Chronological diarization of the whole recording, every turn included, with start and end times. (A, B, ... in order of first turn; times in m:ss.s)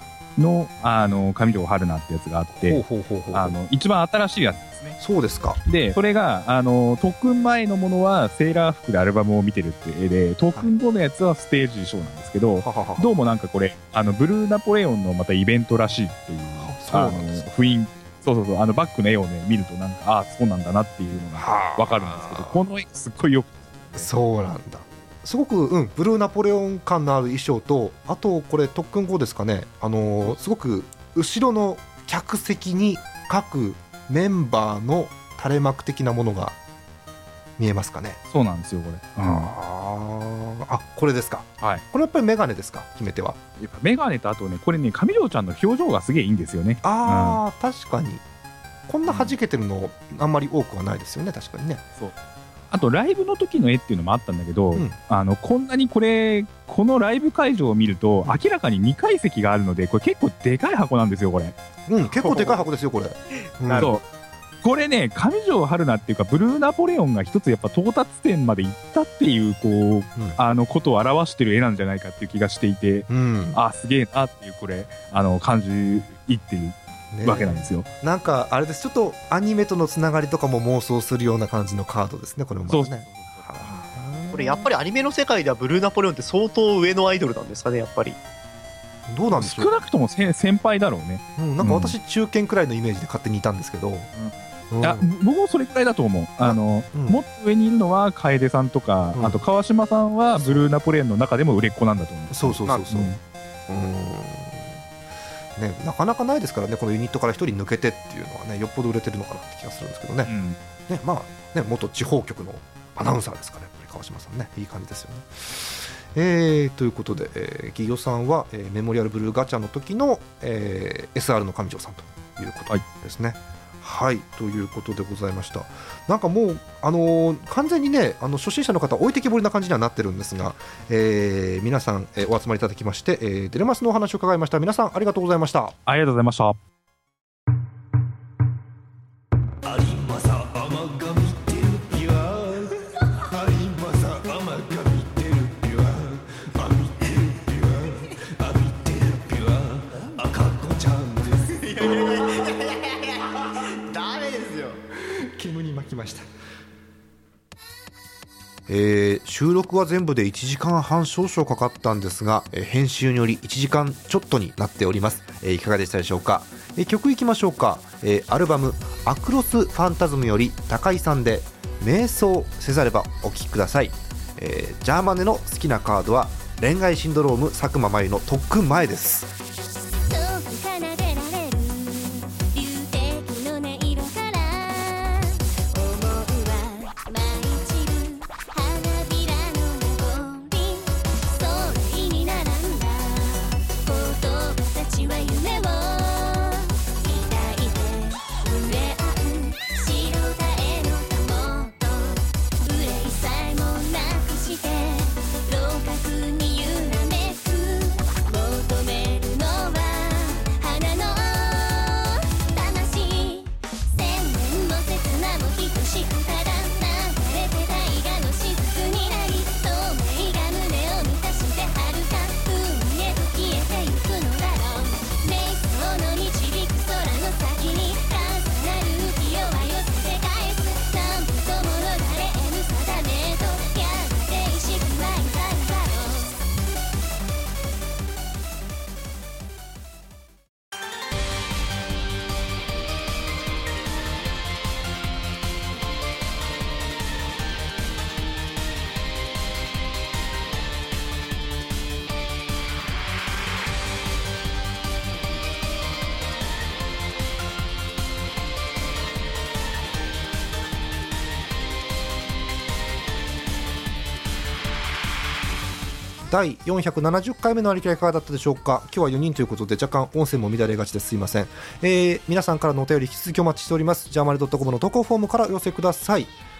0:00.4-0:05.0 A
0:02.5-0:03.6 B
0:05.0-0:05.6 B
0:05.7-0:24.1 A
0:12.6-0:13.1 B
0:16.6-0:17.5 B
0:21.4-0:22.6 B
0:24.0-0:36.6 B
0:37.6-0:38.2 B
0:38.3-0:39.5 A
0:39.2-0:43.4 B
0:43.6-0:47.4 A
0:46.8-0:48.2 B
0:48.9-0:51.8 B
0:49.0-0:49.4 A
0:52.7-1:01.6 A
1:01.9-1:03.9 B
1:02.2-1:02.6 C
1:03.6-1:04.0 C
1:04.6-1:17.9 A
1:13.1-1:13.6 B
1:17.1-1:24.7 B
1:22.7-1:23.8 A
1:24.3-1:28.2 C
1:29.1-1:29.8 B
1:29.3-1:32.0 A
1:31.4-1:34.1 B
1:34.1-1:43.2 A
1:34.7-1:35.1 B
1:36.4-1:37.2 B
1:39.2-1:39.4 B
1:40.4-1:40.7 B
1:42.3-1:43.1 B
1:43.7-1:44.8 B
1:45.6-1:50.3 B
1:50.2-1:50.6 A
1:50.9-2:15.8 B
2:15.9-2:16.6 A
2:20.4-2:22.3 B
2:23.4-2:29.6 B
2:30.2-2:31.4 B
2:31.5-2:34.8 C
2:35.3-2:36.3 B
2:38.7-2:59.3 B
3:00.1-3:56.4 D
4:26.2-4:36.3 B